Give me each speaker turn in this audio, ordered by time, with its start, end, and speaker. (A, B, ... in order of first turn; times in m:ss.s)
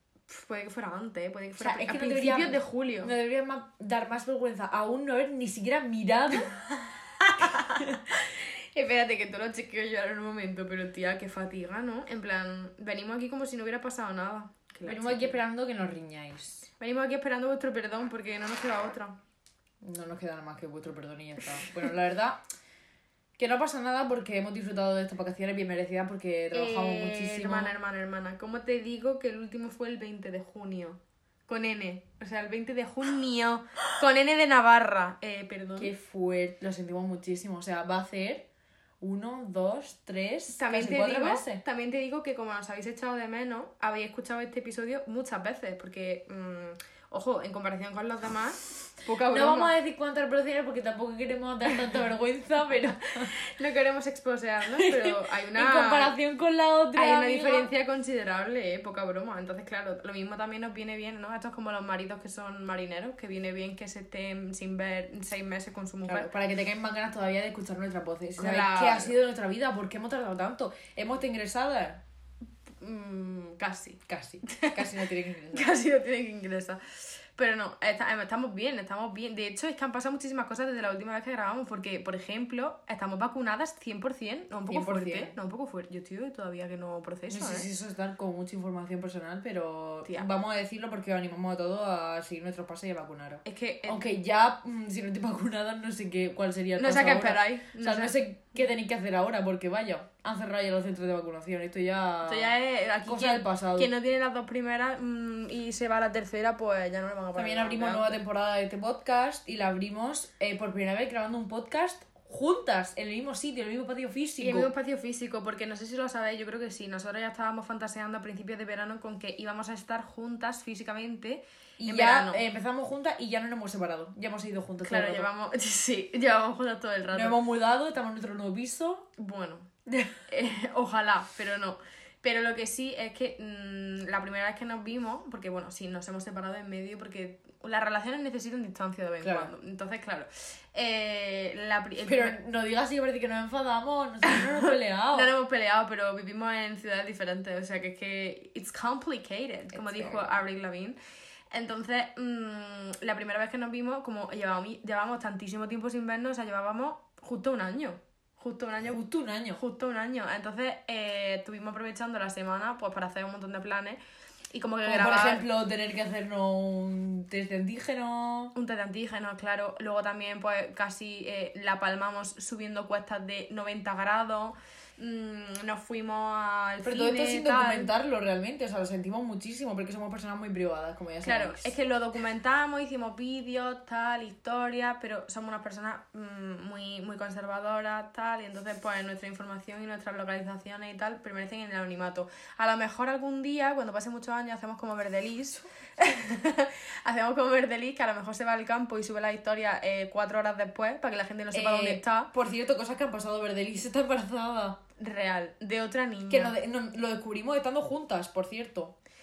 0:00.3-0:03.1 A
0:01.6-0:06.7 B
0:07.4-0:15.4 A
0:14.8-0:16.7 B
0:16.8-0:19.2 A
0:19.8-0:22.4 B
0:23.4-0:27.7 B
0:26.5-0:35.9 A
0:35.8-0:38.4 B
0:39.0-0:41.6 B
0:40.5-0:49.7 A
0:49.3-0:53.3 B
0:53.3-0:56.2 A
0:54.7-0:57.7 B
0:57.0-1:06.3 A
1:06.1-1:12.0 B
1:08.4-1:09.1 A
1:12.8-1:14.8 A
1:14.1-1:15.7 B
1:15.5-1:27.7 A
1:24.7-1:25.3 B
1:27.3-1:42.5 B
1:33.4-1:34.0 A
1:36.8-1:38.2 A
1:42.2-1:48.2 A
1:43.1-1:43.9 B
1:47.3-1:54.7 B
1:54.4-2:02.4 A
2:01.8-2:05.3 B
2:04.8-2:07.4 A
2:07.1-2:09.1 B
2:09.2-2:09.7 A
2:10.3-2:22.4 A
2:19.2-2:19.5 B
2:22.0-2:25.3 B
2:25.1-2:31.0 A
2:29.7-2:30.4 B
2:31.5-2:39.0 A
2:38.9-2:39.6 B
2:39.6-2:44.0 A
2:44.5-2:45.5 A
2:44.8-2:48.5 B
2:48.6-2:57.9 A
2:56.8-3:01.7 B
3:01.2-3:22.3 A
3:21.5-3:24.8 B
3:25.0-3:26.6 A
3:26.3-3:29.0 B